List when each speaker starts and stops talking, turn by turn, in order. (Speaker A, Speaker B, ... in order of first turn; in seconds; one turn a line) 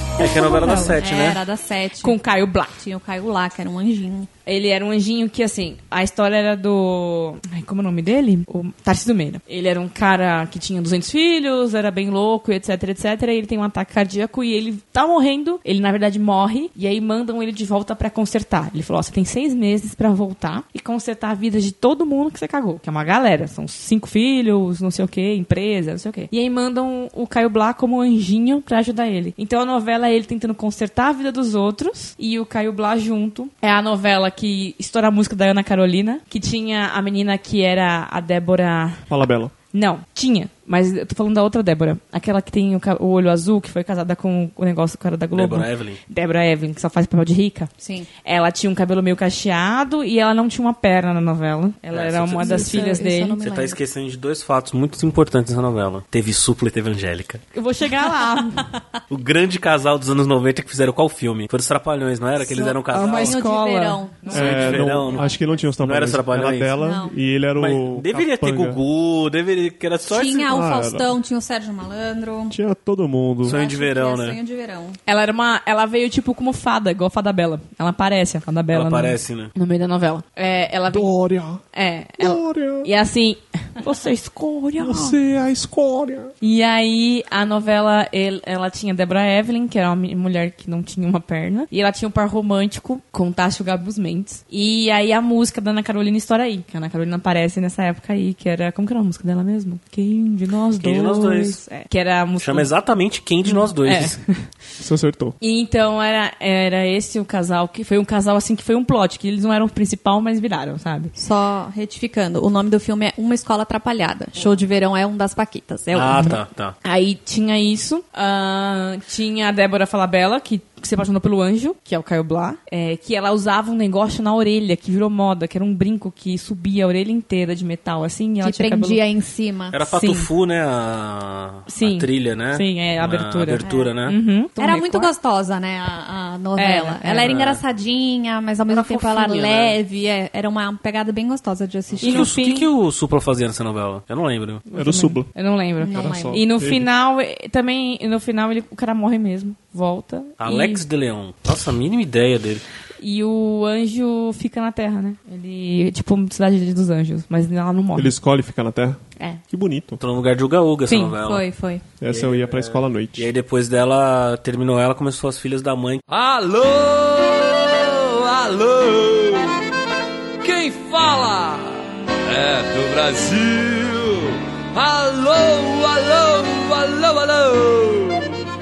Speaker A: 0.2-1.4
Speaker B: 0.2-1.0
Speaker C: 0.4-2.2
Speaker B: 2.0-2.8
Speaker C: 2.8-4.3
Speaker B: 4.5-39.0
Speaker D: 39.1-39.5
Speaker B: 39.7-47.7
Speaker A: 45.3-46.0
Speaker C: 47.8-48.1
Speaker B: 48.2-53.4
Speaker A: 51.9-57.4
Speaker C: 52.4-53.8
Speaker B: 57.5-58.6
Speaker C: 58.4-58.8
Speaker A: 59.1-63.4
Speaker C: 62.4-64.7
Speaker B: 62.9-65.0
Speaker A: 64.3-65.3
Speaker D: 64.3-68.8
Speaker A: 65.8-66.7
Speaker C: 66.8-67.1
Speaker A: 67.6-70.6
Speaker C: 70.1-72.6
Speaker D: 70.5-71.1
Speaker D: 72.5-73.6
Speaker A: 73.4-74.4
Speaker C: 73.5-75.0
Speaker B: 75.1-81.1
Speaker A: 78.7-79.5
Speaker D: 80.9-81.6
Speaker B: 81.7-85.2
Speaker D: 82.2-82.9
Speaker D: 84.8-86.3
Speaker B: 86.4-102.7
Speaker A: 100.8-101.6
Speaker A: 102.4-104.2
Speaker B: 103.8-104.5
Speaker D: 104.8-105.4
Speaker B: 105.4-111.1
Speaker C: 111.2-116.4
Speaker A: 115.9-116.8
Speaker B: 116.8-129.0
Speaker C: 128.4-129.8
Speaker A: 129.7-134.2
Speaker B: 129.8-130.3
Speaker B: 131.7-135.1
Speaker C: 133.6-133.9
Speaker C: 134.6-142.3
Speaker B: 136.6-137.4
Speaker A: 137.2-137.6
Speaker A: 138.7-139.8
Speaker A: 141.9-144.6
Speaker B: 142.0-142.7
Speaker B: 144.7-150.8
Speaker D: 144.7-145.3
Speaker C: 145.8-146.4
Speaker D: 145.8-146.9
Speaker A: 150.4-152.6
Speaker B: 153.0-158.2
Speaker D: 157.9-160.0
Speaker A: 160.0-161.5
Speaker B: 160.9-161.1
Speaker C: 161.2-161.8
Speaker D: 162.0-163.3
Speaker A: 162.1-166.0
Speaker E: 166.1-169.6
Speaker E: 170.4-178.3